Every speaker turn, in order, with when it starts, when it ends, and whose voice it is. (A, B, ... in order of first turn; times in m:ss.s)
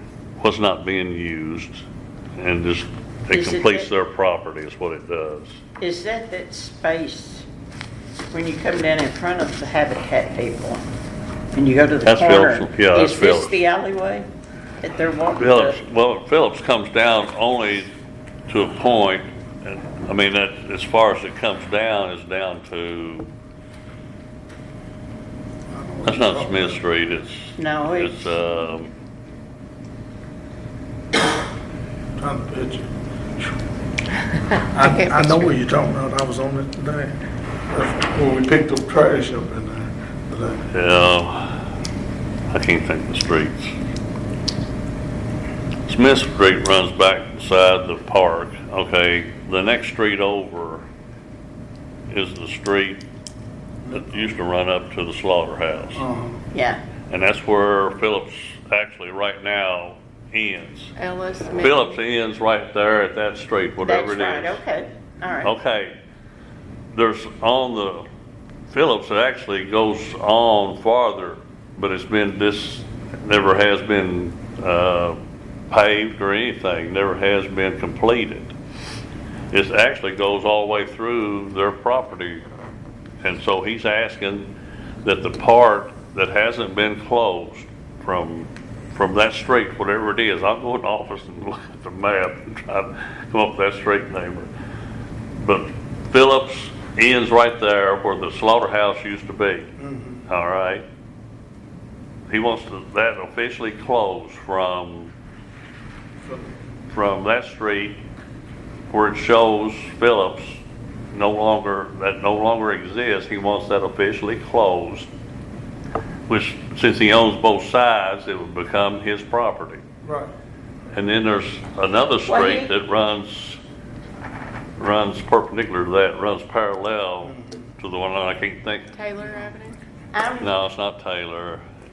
0:00.4-0:01.8 A
0:02.4-0:05.6 A
0:03.3-0:03.9 B
0:05.8-0:07.5 B
0:08.3-0:10.8 B
0:11.5-0:14.3 B
0:12.0-0:13.6 A
0:14.8-0:15.8 B
0:15.4-0:17.9 A
0:18.5-0:23.3 A
0:25.7-0:26.8 C
0:26.0-0:28.9 A
0:27.6-0:28.4 B
0:32.2-0:32.9 C
0:34.7-0:37.2 C
0:34.8-0:35.5 D
0:37.7-0:40.7 C
0:40.7-0:41.6 A
0:42.5-0:43.8 A
0:45.9-0:50.8 A
0:52.1-0:53.0 A
0:53.9-0:56.0 A
0:56.0-0:56.4 C
0:56.5-0:56.8 B
0:57.1-1:00.9 A
1:01.0-1:02.0 D
1:01.6-1:04.6 A
1:03.8-1:05.5 B
1:05.4-1:06.0 A
1:06.9-1:08.1 A
1:08.7-1:18.5 A
1:19.5-1:22.4 A
1:23.2-1:34.5 A
1:35.4-1:39.7 A
1:39.8-1:40.2 C
1:40.3-1:40.8 A
1:42.3-1:45.1 A
1:46.9-1:48.0 A
1:48.9-1:55.1 A
1:56.3-1:59.8 A
2:00.0-2:00.3 C
2:00.9-2:03.6 A
2:02.3-2:02.7 B
2:04.8-2:09.0 A
2:07.2-2:07.6 C
2:08.9-2:09.8 D
2:09.2-2:09.5 C
2:10.1-2:10.5 B
2:10.4-2:11.6 A